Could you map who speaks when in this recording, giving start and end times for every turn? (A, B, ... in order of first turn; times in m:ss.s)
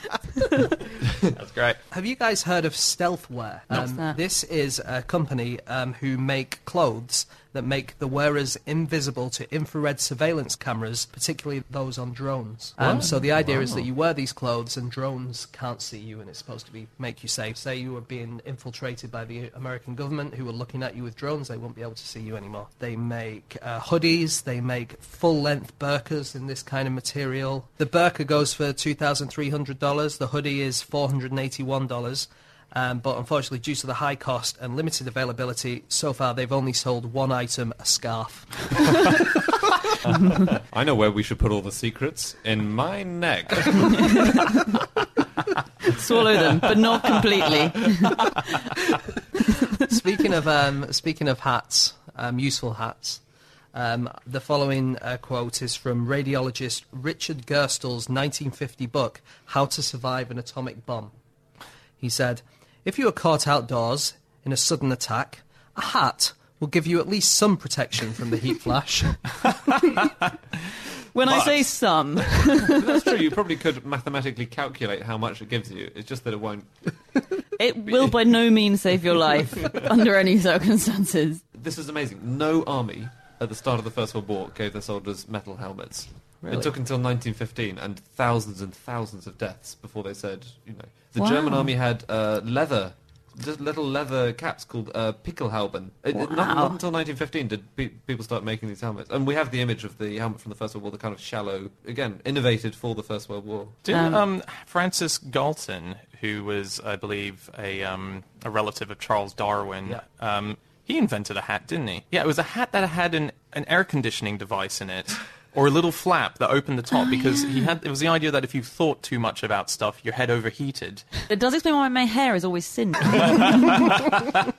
0:00.4-0:00.7 A
0:01.3-0:01.8 B
0:01.9-0:39.2 C
0:03.7-0:04.2 A
0:12.8-0:13.8 D
0:40.0-0:44.6 D
0:45.8-0:48.5 A
0:49.4-0:49.8 A
0:49.8-0:53.2 C
0:53.7-1:01.1 C
1:02.0-1:09.6 C
1:11.1-1:13.0 A
1:11.3-1:11.6 B
1:12.6-1:16.7 D
1:17.6-1:21.4 A
1:17.9-1:18.1 D
1:19.4-1:19.8 D
1:21.5-1:43.8 D
1:26.4-1:26.7 C
1:31.2-1:31.7 A
1:36.1-1:36.8 A
1:43.8-2:01.1 B
1:43.9-1:44.2 A
1:57.1-1:57.6 A
2:01.3-2:04.0 A